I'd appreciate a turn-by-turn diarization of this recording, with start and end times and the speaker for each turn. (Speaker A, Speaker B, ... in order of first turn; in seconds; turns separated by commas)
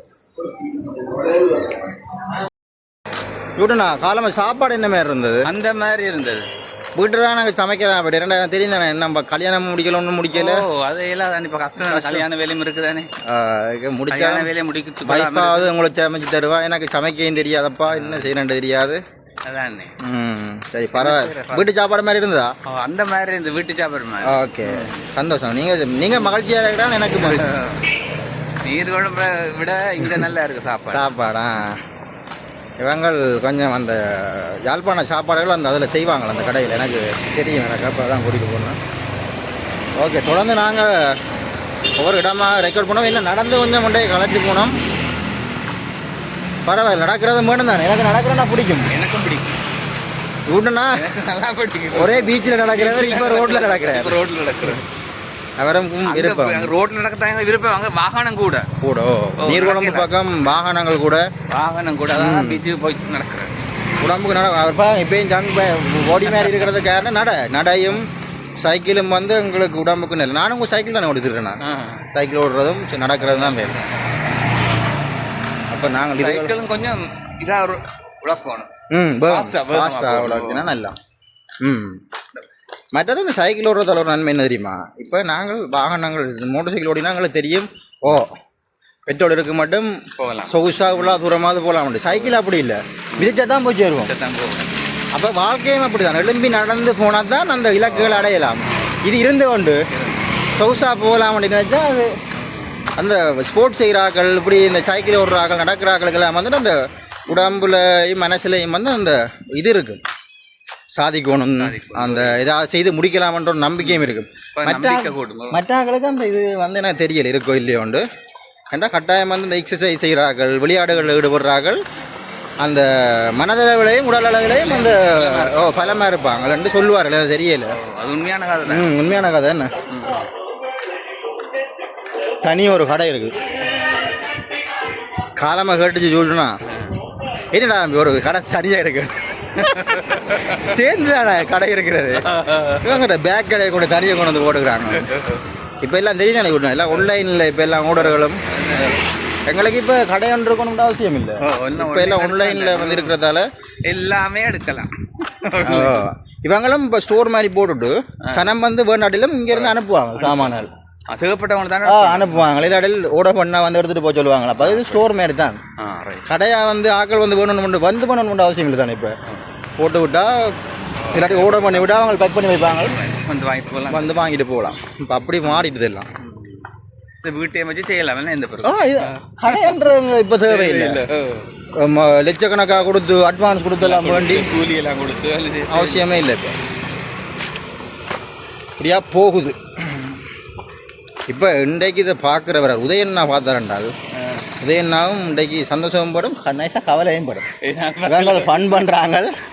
Speaker A: 3.6-5.5, Speaker B: 5.4-6.5, Speaker A: 7.0-10.6, Speaker B: 10.3-13.1, Speaker A: 11.8-12.2, Speaker A: 13.2-14.5, Speaker B: 14.1-15.7, Speaker A: 15.0-19.0, Speaker B: 17.9-18.3, Speaker B: 19.4-19.9, Speaker A: 20.0-22.5, Speaker B: 20.9-21.7, Speaker B: 22.6-25.0, Speaker A: 24.2-27.4, Speaker B: 27.2-27.9, Speaker B: 28.6-31.1, Speaker A: 30.9-31.8, Speaker A: 32.8-38.8, Speaker A: 40.0-41.1, Speaker A: 42.0-44.7, Speaker A: 46.6-48.9, Speaker B: 48.9-49.6, Speaker A: 50.5-51.0, Speaker B: 50.9-54.8, Speaker A: 51.9-54.7, Speaker A: 55.6-56.7, Speaker B: 56.0-58.7, Speaker A: 58.8-61.2, Speaker B: 59.4-60.1, Speaker B: 61.5-63.5, Speaker A: 62.1-62.6, Speaker A: 64.0-68.1, Speaker B: 66.2-66.6, Speaker A: 68.6-71.6, Speaker B: 71.6-72.1, Speaker A: 72.1-73.8, Speaker B: 73.2-74.6, Speaker A: 75.7-76.5, Speaker B: 75.8-78.7, Speaker A: 78.9-80.9, Speaker B: 79.2-80.8, Speaker A: 81.6-82.0, Speaker A: 82.9-88.3, Speaker A: 89.1-94.1, Speaker B: 90.2-91.2, Speaker B: 92.0-92.4, Speaker B: 93.1-93.5, Speaker B: 94.0-94.7, Speaker A: 95.1-99.8, Speaker B: 97.8-98.9, Speaker B: 99.9-100.3, Speaker A: 100.5-102.1, Speaker B: 102.3-102.8, Speaker A: 103.0-110.0, Speaker A: 110.9-118.0, Speaker B: 111.6-112.4, Speaker B: 113.8-115.6, Speaker A: 118.7-121.8, Speaker A: 122.6-127.8, Speaker B: 124.4-126.1, Speaker B: 127.7-129.0, Speaker A: 128.6-129.7, Speaker B: 129.9-130.3, Speaker A: 132.4-133.3, Speaker A: 135.4-136.6, Speaker B: 136.7-136.9, Speaker A: 137.5-142.3, Speaker B: 139.6-140.6, Speaker B: 142.2-143.0, Speaker A: 142.8-145.1, Speaker B: 144.9-145.4, Speaker A: 145.8-148.9, Speaker B: 147.9-149.0, Speaker A: 149.5-153.4, Speaker B: 151.4-153.2, Speaker B: 153.8-156.1, Speaker A: 155.6-160.7, Speaker B: 158.2-158.5, Speaker B: 159.5-162.6, Speaker A: 161.8-165.6, Speaker B: 164.6-165.1, Speaker B: 165.8-166.3, Speaker A: 166.2-169.1, Speaker A: 169.8-170.5, Speaker B: 171.0-174.2, Speaker A: 171.1-172.9, Speaker A: 173.9-176.1, Speaker B: 175.4-176.6, Speaker B: 177.2-179.8, Speaker A: 178.6-181.0, Speaker B: 180.4-181.5, Speaker A: 181.8-184.5, Speaker B: 183.8-186.1, Speaker A: 185.7-186.6, Speaker A: 188.8-190.2, Speaker A: 191.3-193.9, Speaker A: 194.6-197.5, Speaker B: 197.6-198.9, Speaker A: 198.0-199.3